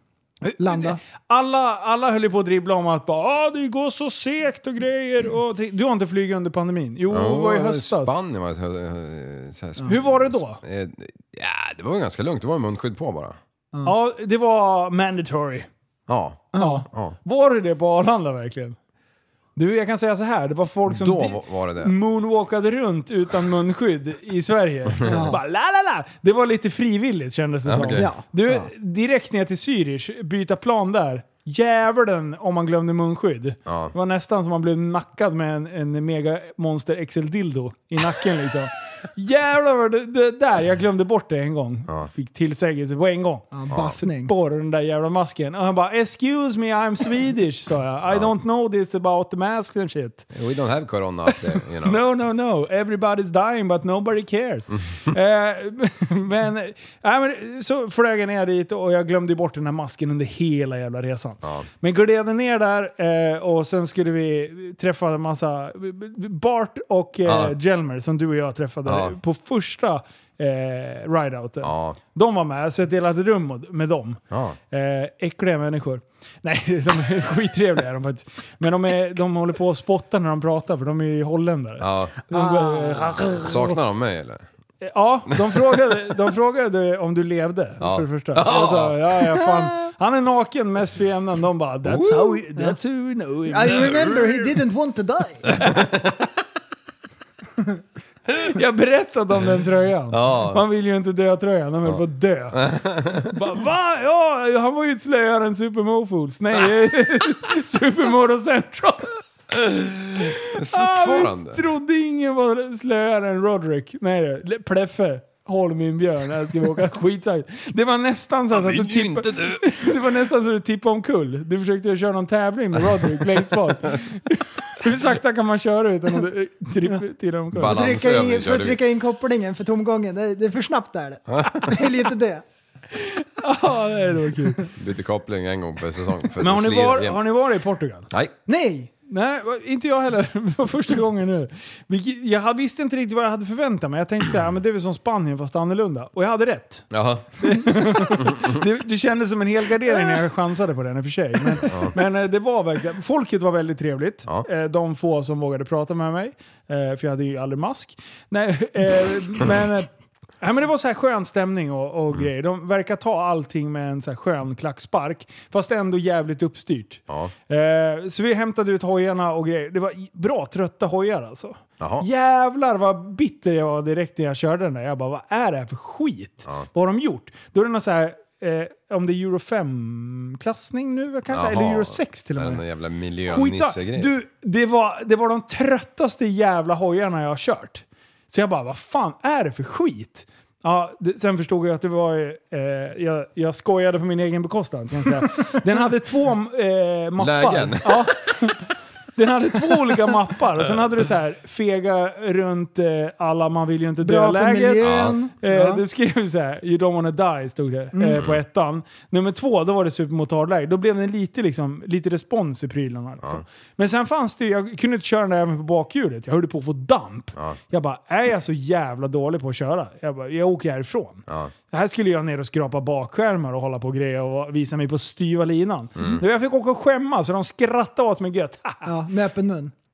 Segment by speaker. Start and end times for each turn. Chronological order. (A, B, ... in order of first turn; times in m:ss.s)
0:00.4-0:08.2 A
0:00.6-0:01.0 B
0:07.1-0:13.4 C
0:09.8-0:10.6 A
0:13.8-0:15.7 A
0:16.1-0:17.2 C
0:16.5-0:16.8 B
0:16.6-0:18.8 A
0:19.6-0:50.2 A
0:20.9-0:22.0 C
0:25.0-0:25.4 B
0:27.6-0:28.1 C
0:27.9-0:28.7 B
0:33.6-0:33.9 C
0:43.5-0:44.3 B
0:43.7-0:44.0 C
0:48.1-0:48.3 C
0:50.3-0:52.0 C
0:51.3-1:14.2 A
1:01.4-1:01.7 C
1:07.2-1:07.5 C
1:08.8-1:09.2 C
1:11.6-1:12.0 C
1:14.3-1:14.6 C
1:14.7-1:23.8 A
1:21.8-1:22.2 C
1:22.3-1:23.4 B
1:23.4-1:24.4 C
1:24.8-1:33.9 A
1:25.3-1:26.0 C
1:27.8-1:29.1 C
1:32.0-1:32.8 B
1:33.4-1:35.5 B
1:33.7-1:34.5 C
1:35.5-1:36.1 C
1:35.6-1:35.9 A
1:38.5-1:42.6 A
1:40.1-1:40.6 C
1:41.8-1:43.3 C
1:43.2-1:49.2 A
1:49.5-1:51.6 C
1:50.2-2:07.8 A
1:58.5-2:00.0 C
2:02.8-2:04.0 C
2:07.5-2:08.8 C
2:07.6-2:12.4 B
2:11.4-2:11.7 C
2:12.9-2:14.7 A
2:14.8-2:17.2 C
2:16.4-2:18.1 A
2:18.5-2:18.9 B
2:19.1-2:26.8 A
2:26.9-2:28.6 C
2:27.4-2:39.9 A
2:31.6-2:31.9 C
2:40.4-3:02.6 A
2:51.8-2:52.1 C
3:01.3-3:04.1 C
3:03.2-3:48.9 A
3:17.2-3:18.4 C
3:24.0-3:25.8 B
3:24.8-3:25.2 C
3:27.9-3:28.2 B
3:41.3-3:41.5 C
3:46.0-3:46.2 C
3:48.8-3:49.7 B